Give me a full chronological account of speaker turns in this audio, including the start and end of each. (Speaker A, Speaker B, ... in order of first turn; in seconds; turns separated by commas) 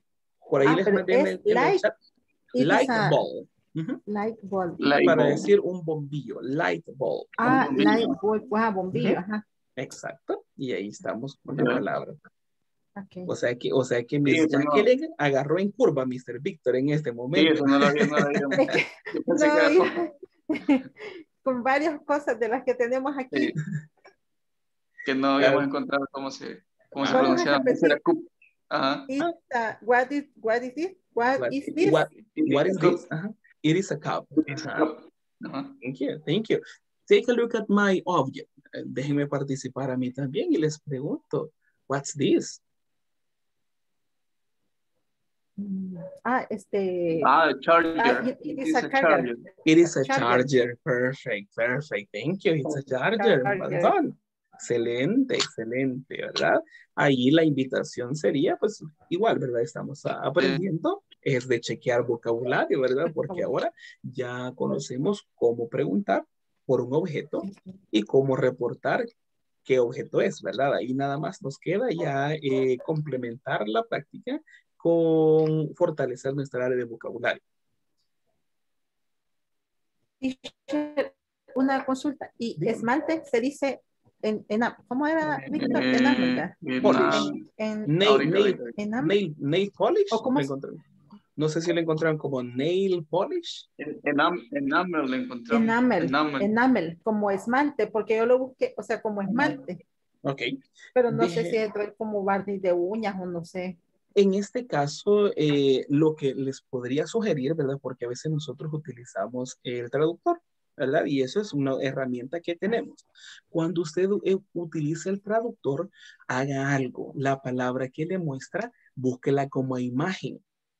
Speaker A: 0.4-1.9, Speaker B: 0.6-1.8, Speaker B: 2.5-3.2, Speaker A: 2.5-4.0, Speaker B: 4.1-5.0, Speaker C: 4.8-5.5, Speaker A: 5.0-8.1, Speaker B: 7.4-9.4, Speaker C: 7.4-8.2, Speaker A: 9.8-12.2, Speaker C: 11.5-11.8, Speaker B: 12.9-13.3, Speaker A: 13.3-18.4, Speaker C: 14.2-14.9, Speaker C: 17.3-19.9, Speaker B: 18.6-23.6, Speaker C: 25.0-29.1, Speaker A: 25.4-25.7, Speaker A: 27.0-27.4, Speaker B: 27.0-28.0, Speaker B: 29.1-32.0, Speaker A: 31.4-34.9, Speaker C: 32.3-33.0, Speaker C: 34.5-35.7, Speaker A: 35.8-42.6, Speaker B: 45.6-47.3, Speaker C: 47.2-49.4, Speaker B: 48.0-49.3, Speaker A: 49.6-69.1, Speaker B: 50.0-50.4, Speaker B: 53.2-53.9, Speaker A: 69.6-77.4, Speaker B: 80.2-87.9, Speaker A: 82.6-82.9, Speaker C: 85.2-88.7, Speaker A: 86.8-87.3, Speaker A: 87.8-90.8, Speaker B: 88.8-89.2, Speaker B: 90.1-90.5, Speaker A: 91.3-93.7, Speaker C: 93.8-96.5, Speaker B: 95.5-99.8, Speaker A: 100.2-100.6, Speaker B: 100.9-103.8, Speaker A: 101.1-101.6, Speaker A: 104.1-120.4